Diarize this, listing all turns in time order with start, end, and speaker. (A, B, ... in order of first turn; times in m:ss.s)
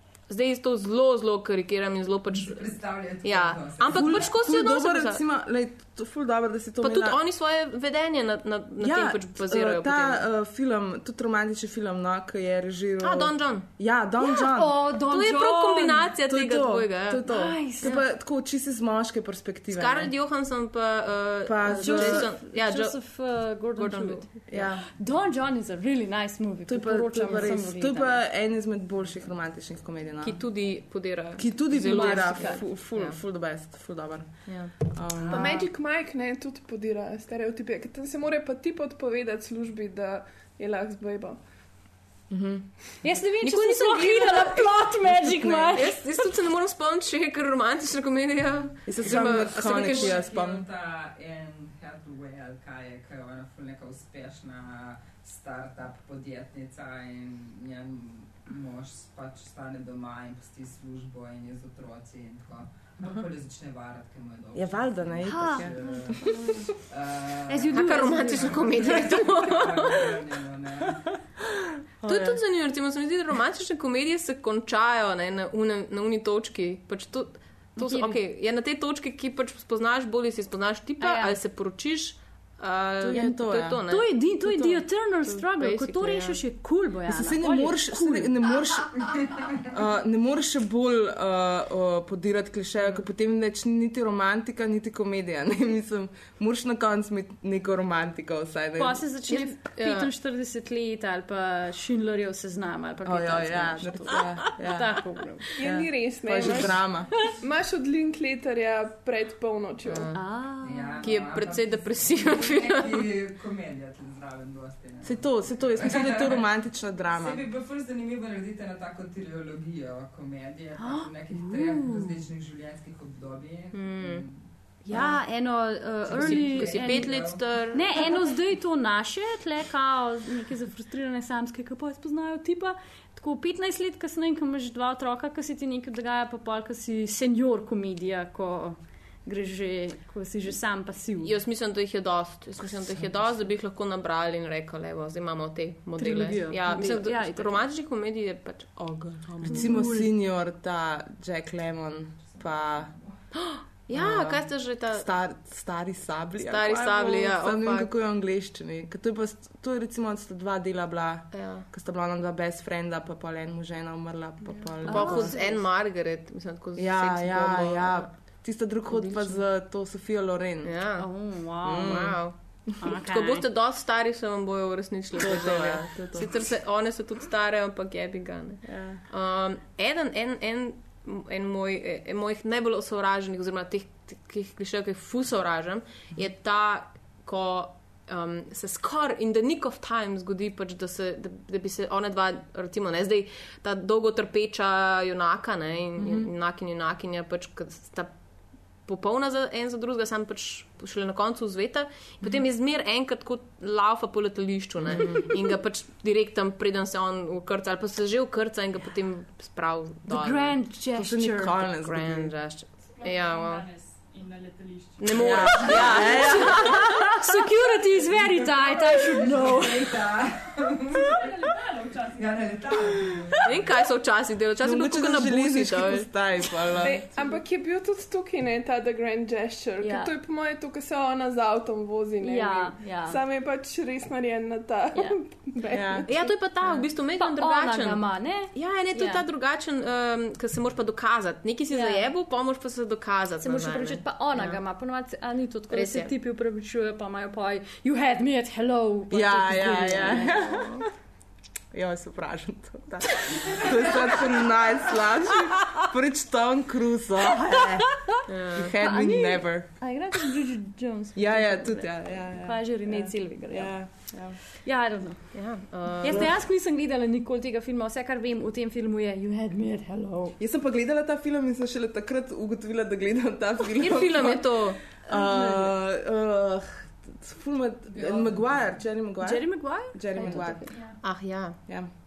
0:00.3-0:05.2 A
0:02.3-0:04.3 B
0:03.9-0:07.2 C
0:06.8-0:10.2 A
0:08.8-0:14.8 C
0:13.0-0:13.7 A
0:14.2-0:16.1 D
0:15.1-0:17.3 A
0:16.3-0:20.1 C
0:17.3-0:18.0 D
0:19.7-0:24.3 A
0:21.5-0:22.3 C
0:21.8-0:28.2 D
0:24.5-0:24.9 C
0:26.7-0:30.6 C
0:30.2-0:33.2 A
0:31.4-0:35.7 C
0:31.8-0:32.6 D
0:34.5-0:34.7 A
0:35.3-0:41.4 E
0:42.3-0:42.7 C
0:43.0-0:46.0 D
0:43.4-0:44.7 A
0:45.0-0:45.9 C
0:45.7-0:50.2 A
0:48.9-0:50.6 C
0:49.1-1:11.1 B
1:04.6-1:06.4 C
1:05.2-1:06.7 D
1:07.5-1:09.0 D
1:07.7-1:10.2 A
1:12.0-1:12.4 C
1:12.1-1:26.4 A
1:17.8-1:18.2 D
1:21.0-1:21.4 D
1:23.0-1:23.8 C
1:23.9-1:28.3 D
1:27.1-1:39.0 C
1:28.9-1:29.7 B
1:38.8-1:45.5 D
1:39.3-1:40.1 A
1:43.0-1:45.0 C
1:45.6-1:47.2 C
1:45.6-1:50.1 E
1:49.8-1:50.4 A
1:50.1-1:51.1 D
1:50.6-1:56.5 B
1:51.0-1:53.1 A
1:55.0-1:57.4 C
1:57.1-2:04.5 B
2:00.8-2:02.2 D
2:03.7-2:04.3 A
2:04.8-2:21.4 D
2:06.0-2:08.1 B
2:06.1-2:08.2 A
2:21.2-2:29.6 A
2:26.0-2:27.7 D
2:28.8-2:32.9 C
2:29.5-2:30.1 D
2:32.2-2:33.2 B
2:33.3-2:35.1 A
2:33.9-2:45.4 C
2:36.4-2:37.9 A
2:41.3-2:41.7 A
2:44.8-2:45.6 D
2:44.8-2:49.4 A
2:46.8-2:50.7 C
2:50.6-3:18.1 A
2:51.0-2:52.1 D
2:51.6-2:52.2 C
2:52.8-2:53.4 D
2:55.2-2:56.3 C
2:58.6-2:59.0 C
3:16.0-3:16.2 C
3:16.0-3:16.3 D
3:18.8-3:30.6 A
3:24.9-3:25.1 C
3:30.1-3:31.7 D
3:31.0-3:32.4 C
3:31.7-3:33.7 A
3:32.8-3:35.6 F
3:35.0-3:37.2 A
3:35.1-3:36.6 C
3:35.6-3:40.0 D
3:38.0-3:41.2 B
3:41.1-3:43.0 F
3:42.2-3:43.8 B
3:43.4-3:46.1 A
3:44.6-3:47.0 C
3:46.8-3:56.1 E
3:49.8-3:50.1 D
3:52.2-3:53.2 D
3:55.7-3:56.1 C
3:56.0-3:59.2 D
3:56.1-4:04.6 A
4:01.7-4:02.1 D
4:03.4-4:10.4 D
4:05.7-4:06.1 A
4:09.1-4:10.9 C
4:10.3-4:10.8 A
4:11.7-4:19.7 C
4:13.4-4:13.7 B
4:17.5-4:18.2 D
4:18.3-4:18.8 A
4:18.8-4:30.4 D
4:21.2-4:24.4 C
4:25.3-4:26.3 A
4:26.0-4:26.3 C
4:30.4-4:40.7 C
4:33.8-4:34.8 A
4:35.1-4:35.7 D
4:38.0-4:38.7 B
4:39.2-4:40.9 D
4:40.7-4:41.0 F
4:41.0-4:41.6 A
4:41.6-4:41.9 C